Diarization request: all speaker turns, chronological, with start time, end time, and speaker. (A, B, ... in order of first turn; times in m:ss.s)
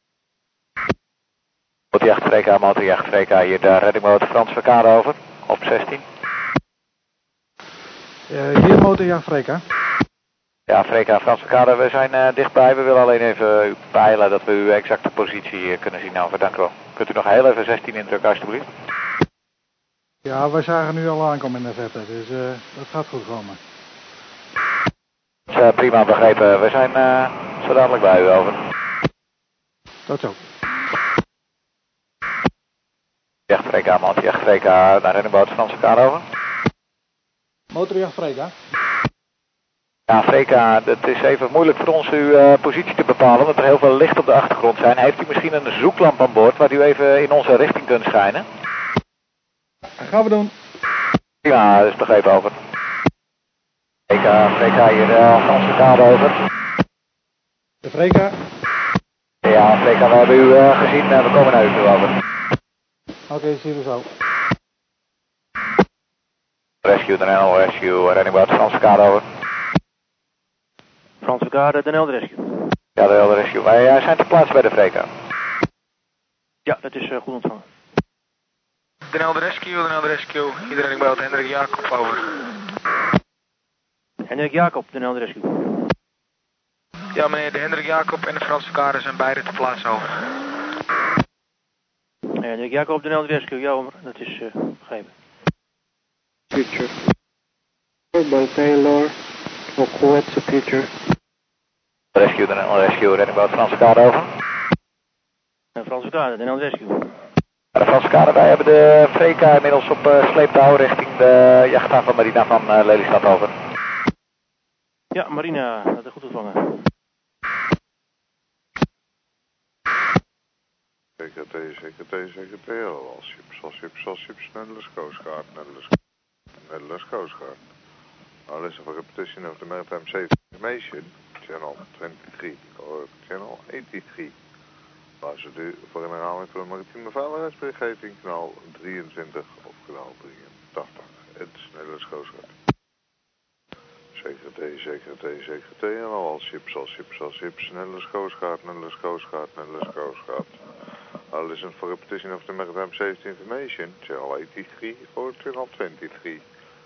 0:01.9-0:06.0 A
0:08.3-0:09.6 B
0:10.7-0:18.7 A
0:20.2-0:23.6 B
0:25.5-0:28.6 A
0:30.1-0:30.4 B
0:33.5-0:36.2 A
0:37.7-0:38.5 B
0:40.1-0:48.4 A
0:50.0-0:50.5 B
0:51.4-0:52.6 A
0:54.1-0:56.4 A
0:57.8-0:58.4 B
0:59.4-1:02.2 A
1:03.3-1:04.1 B
1:06.8-1:09.2 A
1:11.2-1:12.5 C
1:13.0-1:15.1 A
1:16.7-1:17.6 C
1:19.1-1:22.3 D
1:24.2-1:25.7 C
1:27.1-1:30.1 D
1:32.4-1:35.1 C
1:36.5-1:36.9 E
1:38.1-1:39.1 E
1:39.7-1:40.9 E
1:42.2-1:44.3 A
1:45.8-1:47.1 C
1:47.8-1:53.5 A
1:55.1-1:56.8 C
2:01.2-2:05.9 F
2:06.6-2:07.6 F
2:08.5-2:14.3 F
2:15.2-2:22.5 F
2:24.2-2:30.5 F
2:31.3-2:36.4 F